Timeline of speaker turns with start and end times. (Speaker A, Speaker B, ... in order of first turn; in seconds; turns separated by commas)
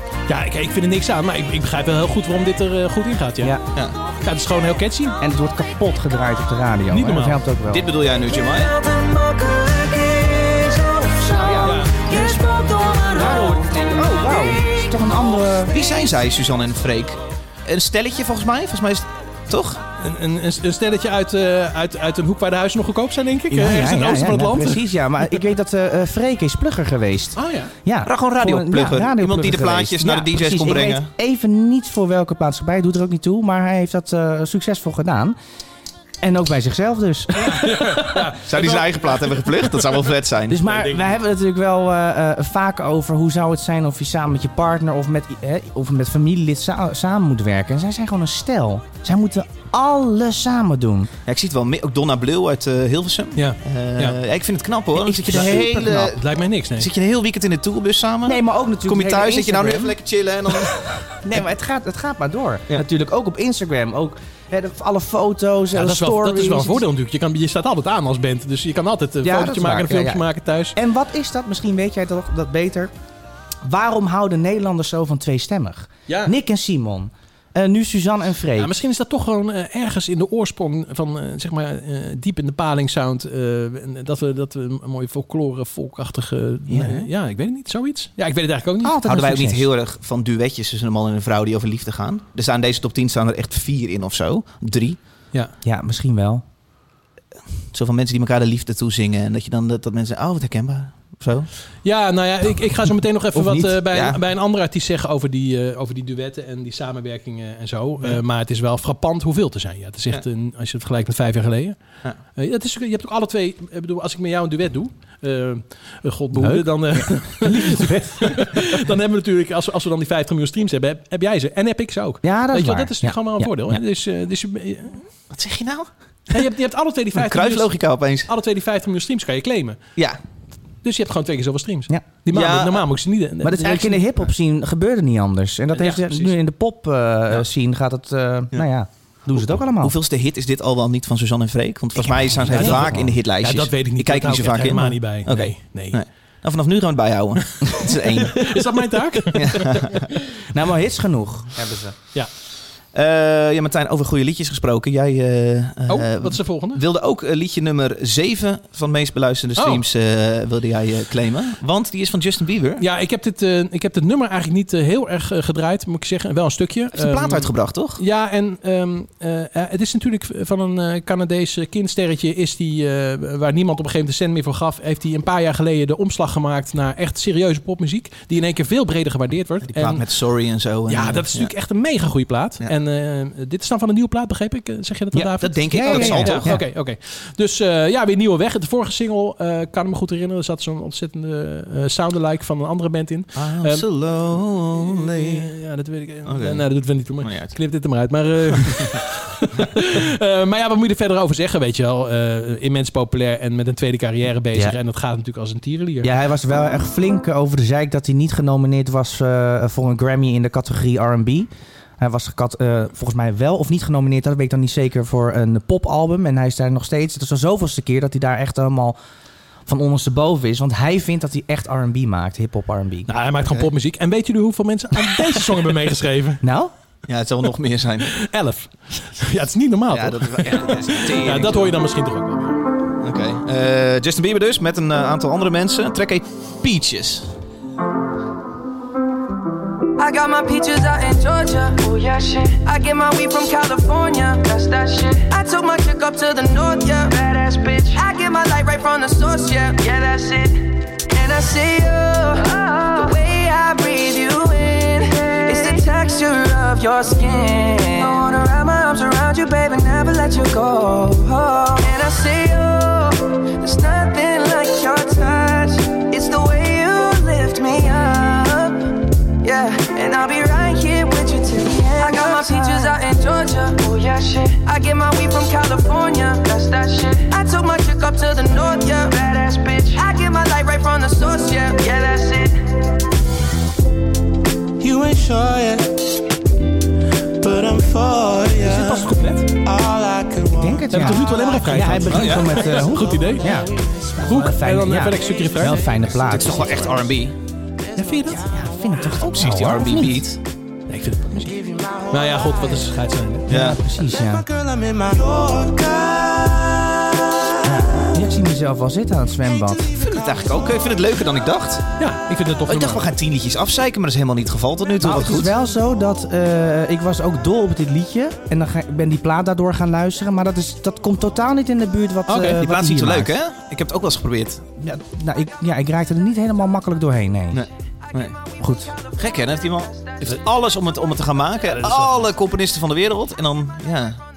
Speaker A: 0.3-3.6, Speaker A: 4.2-5.2, Speaker B: 5.2-7.9, Speaker A: 6.9-7.4, Speaker C: 7.7-8.7, Speaker D: 8.2-14.9, Speaker B: 11.4-12.3, Speaker A: 11.6-12.0, Speaker B: 13.1-15.8, Speaker C: 15.7-19.8, Speaker A: 20.0-24.8, Speaker B: 23.5-35.4, Speaker A: 27.4-27.7, Speaker C: 28.1-31.1, Speaker B: 36.2-38.2, Speaker A: 37.4-39.7, Speaker C: 38.4-40.6, Speaker B: 40.5-51.1, Speaker A: 40.6-41.1, Speaker C: 51.3-56.2, Speaker A: 53.4-54.2, Speaker B: 55.0-56.1, Speaker A: 55.0-56.9, Speaker C: 56.8-61.2, Speaker B: 58.2-60.0, Speaker B: 61.2-66.8, Speaker A: 65.7-70.8, Speaker B: 69.2-72.9, Speaker B: 73.6-78.8, Speaker A: 78.6-89.0, Speaker B: 86.7-87.1, Speaker B: 88.8-89.7, Speaker C: 89.1-95.0, Speaker B: 95.6-96.4, Speaker C: 97.7-101.5, Speaker A: 101.8-125.0, Speaker B: 103.3-103.8, Speaker C: 103.9-104.2, Speaker B: 116.3-118.6, Speaker B: 122.2-123.8, Speaker C: 125.3-125.9, Speaker A: 126.3-129.8, Speaker C: 127.1-128.3, Speaker A: 130.8-134.2, Speaker C: 132.3-132.9, Speaker B: 133.4-139.9, Speaker A: 135.7-136.3, Speaker C: 139.4-148.6, Speaker B: 142.0-143.2, Speaker A: 142.4-146.0, Speaker A: 147.8-150.0, Speaker C: 149.3-150.0, Speaker B: 150.5-152.0, Speaker C: 152.9-162.8, Speaker A: 155.9-156.8, Speaker A: 159.6-159.8, Speaker A: 162.8-180.0, Speaker C: 166.9-168.0, Speaker C: 179.6-181.5, Speaker A: 180.9-193.9, Speaker C: 185.2-186.5, Speaker B: 185.7-186.6, Speaker C: 193.4-195.5, Speaker A: 194.9-206.1, Speaker C: 196.3-197.5, Speaker B: 206.0-219.0, Speaker B: 219.7-223.1, Speaker A: 223.1-226.4, Speaker B: 226.4-226.7, Speaker C: 227.1-228.1, Speaker A: 228.1-232.6, Speaker C: 229.9-231.7, Speaker C: 233.0-237.3, Speaker E: 240.0-282.7, Speaker F: 284.8-286.0, Speaker F: 287.4-291.1, Speaker A: 288.7-289.4, Speaker B: 290.6-296.9, Speaker A: 290.9-293.6, Speaker C: 292.1-292.6, Speaker F: 293.0-294.2, Speaker A: 294.2-296.1, Speaker C: 296.2-297.4, Speaker A: 298.0-298.5, Speaker B: 298.3-300.3, Speaker C: 299.1-300.4, Speaker A: 300.9-303.5, Speaker F: 301.4-302.8, Speaker B: 303.5-304.4, Speaker C: 303.5-303.8, Speaker F: 304.1-307.0, Speaker B: 307.6-309.9, Speaker F: 309.8-310.1, Speaker C: 310.0-311.8, Speaker A: 312.0-313.1, Speaker C: 312.7-315.5, Speaker B: 315.0-323.4, Speaker A: 322.3-322.6, Speaker C: 322.6-324.9, Speaker B: 324.9-327.7, Speaker C: 327.5-328.4, Speaker B: 328.6-328.9, Speaker C: 329.2-334.2, Speaker A: 331.7-332.2